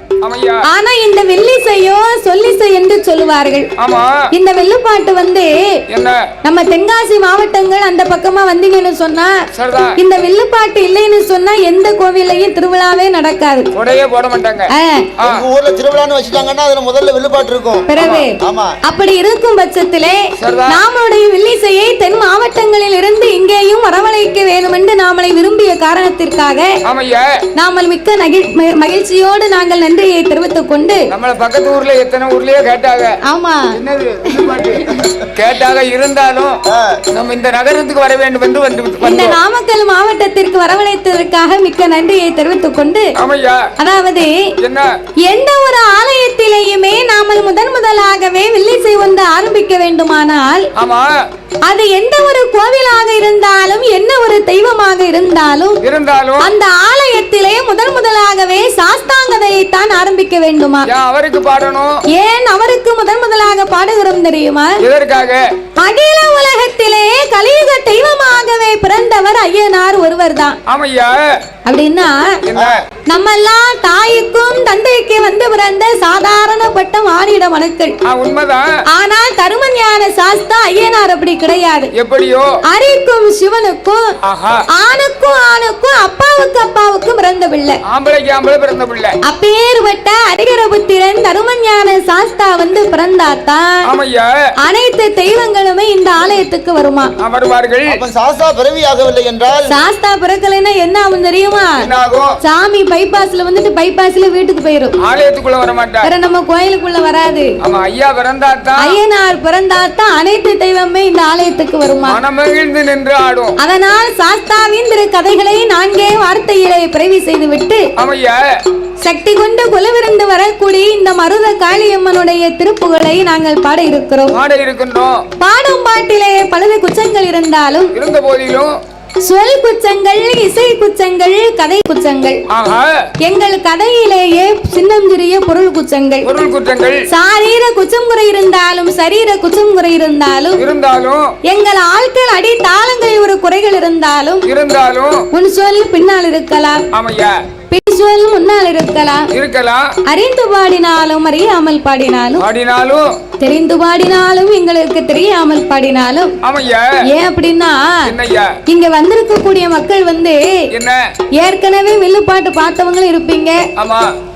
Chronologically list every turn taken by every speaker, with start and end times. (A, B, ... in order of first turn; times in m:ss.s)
0:00.2-0:00.6 A
0:00.7-0:03.7 B
0:03.8-0:04.2 A
0:04.3-0:05.5 B
0:05.9-0:06.3 A
0:06.4-0:09.3 B
0:09.5-0:10.0 A
0:10.0-0:13.7 B
0:13.7-0:15.4 A
0:14.7-0:15.1 B
0:15.2-0:17.8 C
0:17.9-0:26.7 B
0:18.0-0:18.2 A
0:18.4-0:18.7 C
0:20.4-0:20.8 A
0:26.8-0:27.2 A
0:27.6-0:31.0 B
0:31.1-0:33.2 A
0:33.2-0:35.1 B
0:33.7-0:36.6 A
0:36.7-0:37.0 C
0:37.1-0:39.4 A
0:39.0-0:43.1 B
0:43.2-0:43.6 A
0:43.8-0:44.3 B
0:44.6-0:44.9 A
0:45.2-0:50.7 B
0:50.8-0:51.1 A
0:51.6-0:55.8 B
0:55.8-0:56.5 A
0:56.4-1:00.9 B
1:00.9-1:02.0 A
1:02.1-1:04.8 B
1:04.8-1:05.4 A
1:05.8-1:10.6 B
1:10.7-1:11.2 A
1:11.6-1:12.4 B
1:12.4-1:12.8 A
1:13.1-1:18.0 B
1:18.0-1:18.6 A
1:18.9-1:21.9 B
1:21.9-1:22.5 A
1:22.7-1:24.1 B
1:24.2-1:24.6 A
1:24.7-1:27.8 B
1:27.9-1:29.1 A
1:29.2-1:33.8 B
1:33.8-1:34.3 A
1:34.6-1:37.1 B
1:37.2-1:37.9 A
1:37.9-1:39.7 C
1:39.7-1:41.9 B
1:41.8-1:42.3 A
1:42.4-1:44.9 B
1:45.0-1:46.1 A
1:46.0-1:47.5 B
1:47.6-1:49.0 A
1:48.8-1:52.2 B
1:52.0-1:53.6 A
1:53.6-1:57.8 B
1:58.0-1:58.4 A
1:59.0-2:04.3 B
2:04.3-2:05.2 A
2:05.4-2:07.9 B
2:07.9-2:08.7 A
2:09.2-2:12.4 B
2:12.5-2:12.9 A
2:13.2-2:16.3 B
2:16.2-2:17.0 A
2:17.1-2:20.6 B
2:20.6-2:21.3 A
2:21.4-2:24.4 B
2:24.4-2:25.2 A
2:25.3-2:26.8 B
2:26.9-2:27.4 A
2:27.7-2:29.3 B
2:29.3-2:29.8 A
2:30.1-2:32.4 B
2:32.4-2:33.1 A
2:33.4-2:36.3 B
2:36.4-2:36.8 A
2:37.1-2:37.8 B
2:38.1-2:38.5 A
2:38.7-2:40.4 B
2:40.7-2:41.0 A
2:41.4-2:43.6 B
2:43.8-2:44.1 A